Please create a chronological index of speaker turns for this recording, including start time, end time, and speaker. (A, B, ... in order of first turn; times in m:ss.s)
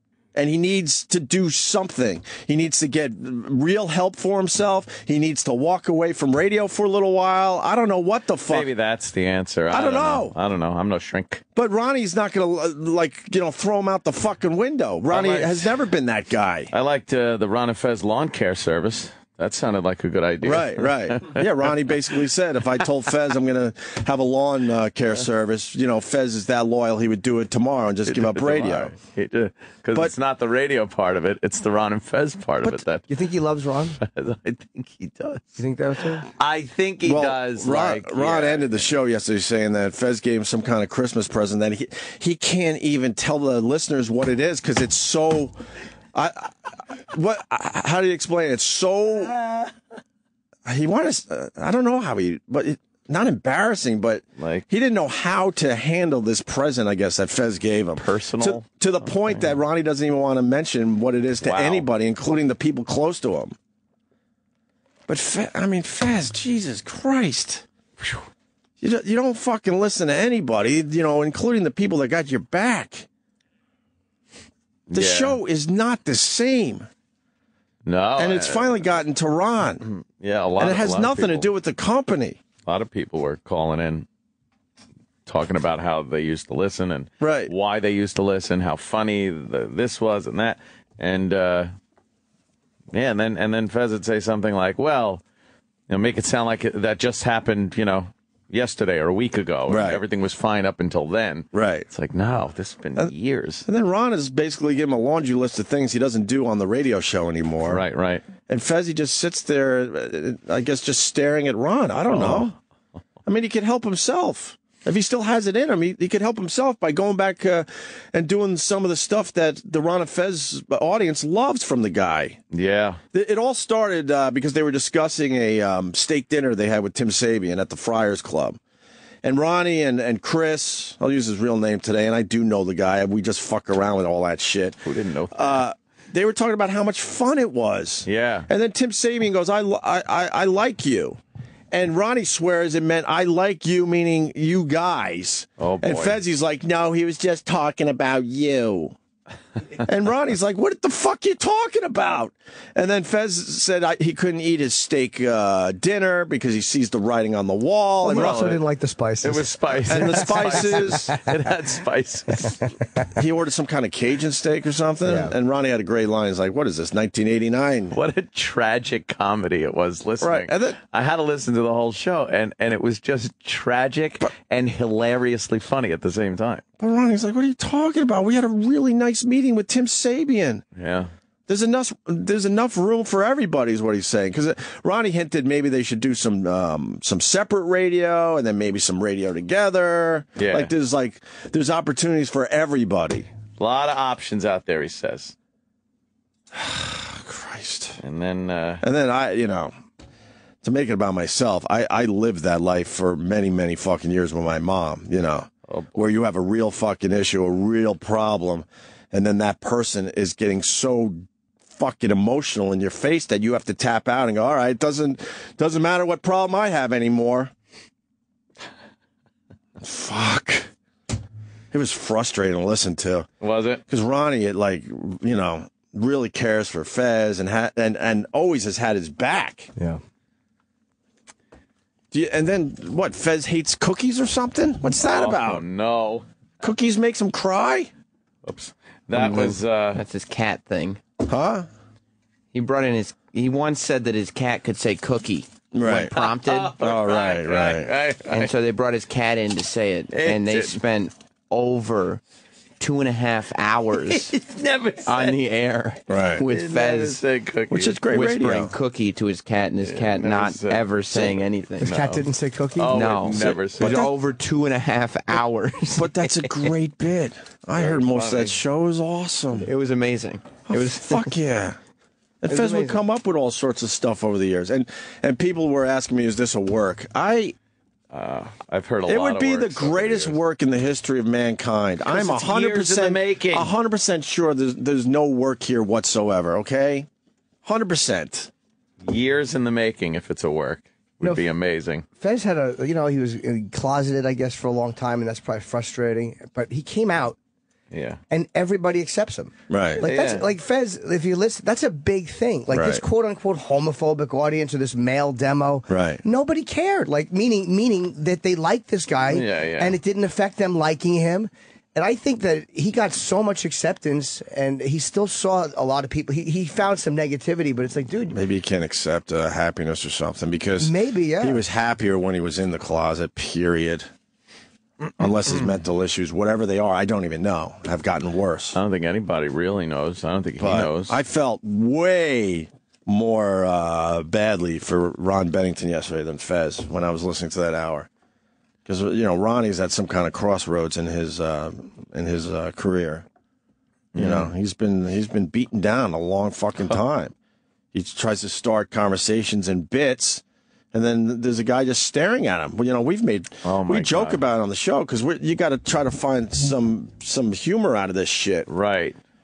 0:00.3-0:08.7 A
0:08.5-0:11.4 B
0:09.7-0:10.3 A
0:11.5-0:16.7 A
0:15.1-0:15.7 B
0:16.7-0:21.4 B
0:20.4-0:28.9 A
0:28.0-0:33.0 B
0:33.1-0:34.0 C
0:34.0-0:35.5 B
0:35.6-0:36.3 C
0:36.4-0:38.9 B
0:37.0-0:45.5 A
0:46.1-0:49.4 A
0:50.6-1:03.6 A
0:54.4-0:54.7 B
0:58.0-0:59.6 B
1:01.4-1:01.9 B
1:05.1-1:07.6 A
1:08.8-1:13.1 A
1:14.9-1:15.4 B
1:14.9-1:16.9 A
1:17.8-1:18.8 B
1:18.2-1:19.8 A
1:19.8-1:21.5 B
1:20.6-1:22.4 A
1:22.6-1:24.0 B
1:25.2-1:31.7 B
1:27.2-1:27.5 A
1:32.9-1:35.2 B
1:35.9-1:43.6 B
1:39.7-1:40.0 A
1:41.5-1:41.9 A
1:43.6-1:47.8 A
1:47.6-1:48.2 B
1:48.5-1:52.5 A
1:52.1-1:52.5 B
1:53.2-2:02.4 A
2:02.5-2:03.0 B
2:03.1-2:08.6 A
2:09.2-2:14.8 A
2:14.8-2:15.6 B
2:15.3-2:21.2 A
2:18.0-2:18.5 B
2:21.7-2:29.0 A
2:25.6-2:26.2 B
2:29.8-2:38.6 A
2:38.0-2:41.2 C
2:38.1-2:38.6 B
2:39.2-2:42.6 B
2:39.9-2:41.1 A
2:42.4-2:43.2 C
2:43.2-2:48.0 A
2:45.0-2:45.3 C
2:47.9-2:56.6 B
2:50.2-2:50.8 A
2:56.8-3:00.6 A
3:00.7-3:01.1 B
3:01.5-3:13.3 A
3:10.4-3:10.7 B
3:13.6-3:15.3 B
3:16.5-3:18.0 A
3:18.0-3:18.8 B
3:18.8-3:19.8 A
3:20.6-3:37.5 A
3:25.7-3:26.1 B
3:39.8-3:40.7 A
3:41.7-3:43.3 A
3:43.4-3:43.8 B
3:43.9-3:49.7 A
3:52.1-3:55.6 A
3:55.0-3:56.2 B
3:56.6-3:57.9 A
3:58.4-4:00.0 B
3:59.2-4:01.0 D
4:01.2-4:01.7 A
4:02.5-4:06.7 D
4:05.7-4:06.1 A
4:05.9-4:08.5 B
4:06.8-4:07.9 A
4:08.3-4:12.2 D
4:10.1-4:10.8 B
4:12.8-4:14.3 D
4:14.1-4:15.3 B
4:15.0-4:17.2 D
4:16.1-4:16.4 A
4:16.5-4:18.4 B
4:17.7-4:18.7 A
4:18.1-4:21.9 D
4:19.8-4:24.1 B
4:21.8-4:23.0 C
4:22.9-4:26.3 D
4:26.0-4:29.7 A
4:27.8-4:28.6 B
4:29.6-4:31.3 D
4:30.7-4:31.8 A
4:32.4-4:37.6 A
4:32.5-4:33.0 C
4:38.1-4:40.4 B
4:39.0-4:47.1 A
4:42.1-4:43.7 B
4:47.6-4:48.5 A
4:49.0-4:52.0 B
4:52.2-4:57.4 C
4:57.9-4:58.2 B
4:58.3-5:18.4 C
4:59.7-5:00.0 A
5:00.0-5:00.5 B
5:02.7-5:03.0 A
5:05.9-5:06.2 A
5:09.3-5:09.9 B
5:18.3-5:24.1 A
5:20.8-5:21.6 C
5:25.2-5:28.8 A
5:28.7-5:31.2 B
5:30.6-5:38.1 A
5:38.8-5:43.2 A
5:44.1-5:44.5 B
5:44.2-5:47.3 A
5:47.9-5:58.7 A
5:53.6-5:54.4 B
5:58.7-5:59.2 B